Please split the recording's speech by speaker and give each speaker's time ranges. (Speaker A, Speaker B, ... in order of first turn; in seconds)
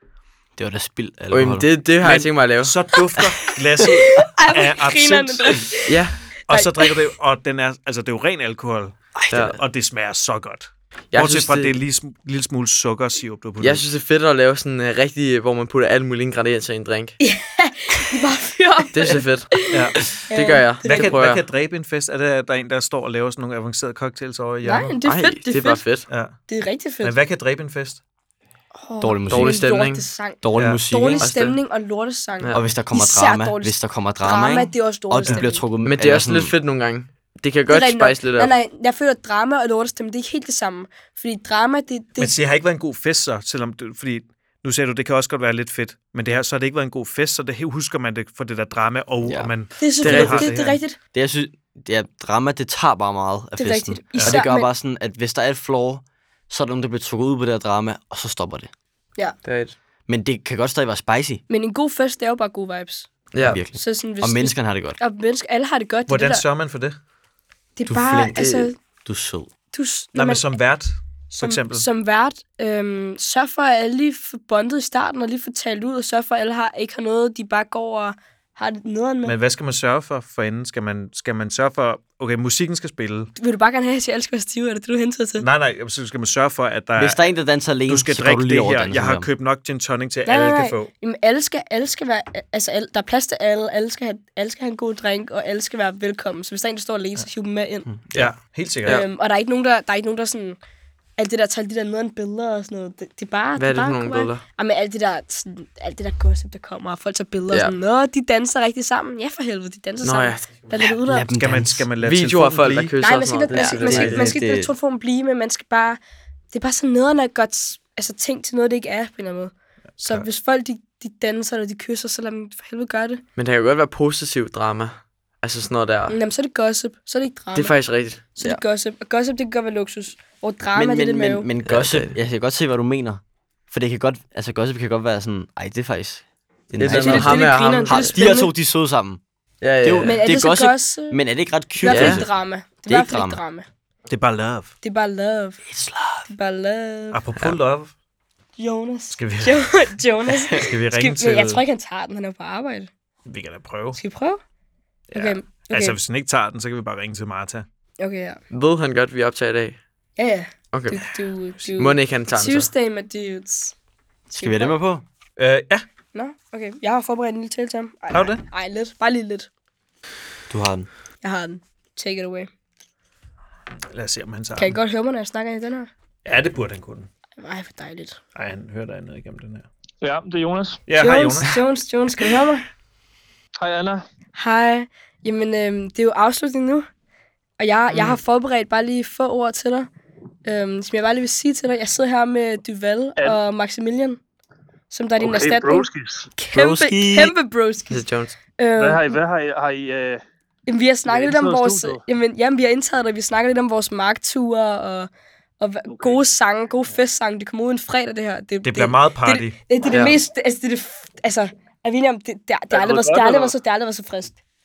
Speaker A: 0.6-1.7, 9.1-9.6, 29.0-29.7, 30.4-31.3, 32.5-36.5, 49.2-49.5, 51.1-58.7, 60.1-61.4, 63.4-65.0, 67.8-69.5, 87.0-89.3, 110.8-111.9, 113.5-114.7, 130.7-139.2, 139.8-142.3, 142.9-143.4, 145.6-146.3, 150.3-150.7, 164.3-165.0, 170.5-170.9, 196.5-197.3
Speaker B: 1.3-2.8, 5.9-6.2, 9.3-9.6, 11.1-11.8, 13.6-17.2, 18.9-19.5, 20.3-21.4, 25.0-26.1, 29.3-30.1, 31.2-31.6, 35.8-38.5, 50.0-50.4, 59.4-59.7, 63.3-63.6, 68.4-68.7, 103.6-104.4, 110.0-110.5, 112.0-114.3, 123.3-126.2, 127.5-128.5, 131.6-132.1, 136.8-138.2, 139.6-140.2, 141.8-142.2, 158.5-159.8, 160.7-161.0, 161.8-162.7, 197.9-198.3, 209.9-210.2
Speaker C: 2.0-5.7, 6.5-13.8, 19.7-20.3, 20.8-24.9, 26.1-26.4, 27.0-28.0, 30.6-30.8, 42.2-50.8, 54.2-54.4, 66.1-67.0, 70.1-71.9, 79.2-83.3, 85.4-87.2, 87.9-90.9, 98.1-99.0, 111.3-112.9, 120.0-120.3, 144.1-144.7, 147.1-147.9, 149.1-149.9, 150.6-151.6, 153.2-154.0, 155.1-157.7, 165.4-165.8, 168.1-168.4, 173.9-174.8, 176.2-177.1, 178.3-179.7, 180.8-181.6, 208.6-209.6
Speaker D: 4.1-7.0, 17.2-21.2, 24.6-25.9, 26.5-27.1, 28.8-35.6, 37.7-42.4, 49.8-51.0, 53.6-54.7, 61.5-63.1, 63.7-66.4, 67.8-68.8, 69.7-70.5, 71.3-79.3, 83.4-85.5, 90.2-97.9, 98.8-100.6, 101.2-111.3, 113.0-116.0, 116.5-123.2, 126.1-127.7, 128.3-131.5, 136.9-138.5, 140.0-141.2, 141.8-143.7, 144.8-145.6, 146.3-147.2, 148.6-152.9, 153.9-154.4, 155.1-156.0, 158.0-158.4, 160.2-163.7, 164.4-164.8, 166.1-169.5, 171.2-172.5, 174.6-175.9, 177.4-178.2, 180.9-182.6, 184.3-186.9, 187.6-189.9, 190.4-194.2, 194.9-198.0, 198.6-199.2, 200.7-205.1, 205.6-214.4
Speaker E: 180.0-180.8, 183.6-184.0, 195.2-196.3, 198.8-200.2, 201.1-202.0, 205.9-206.2, 212.7-213.5